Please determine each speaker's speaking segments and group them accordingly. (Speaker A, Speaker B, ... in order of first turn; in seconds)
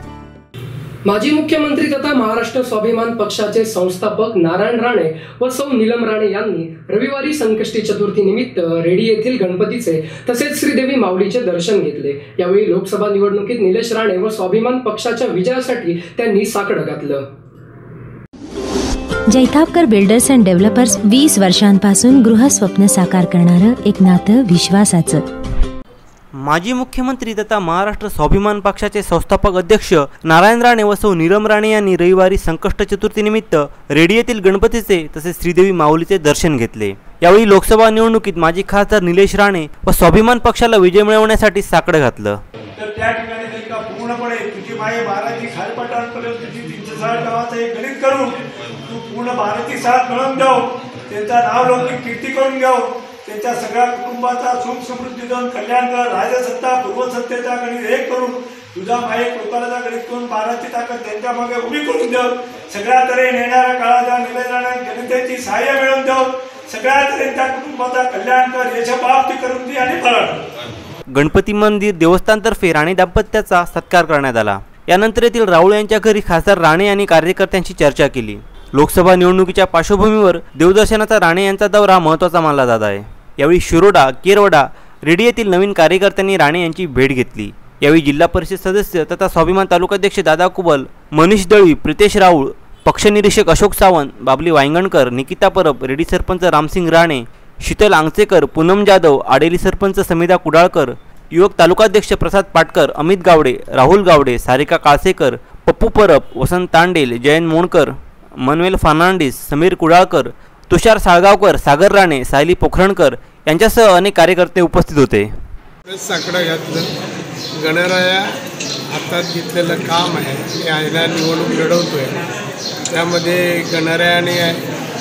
Speaker A: 1.0-17.3
Speaker B: 19.3-25.2
Speaker C: 26.4-42.4, 71.1-115.3
Speaker D: 42.8-70.5
Speaker E: 115.9-116.9, 117.5-118.3, 118.9-122.2, 122.9-124.6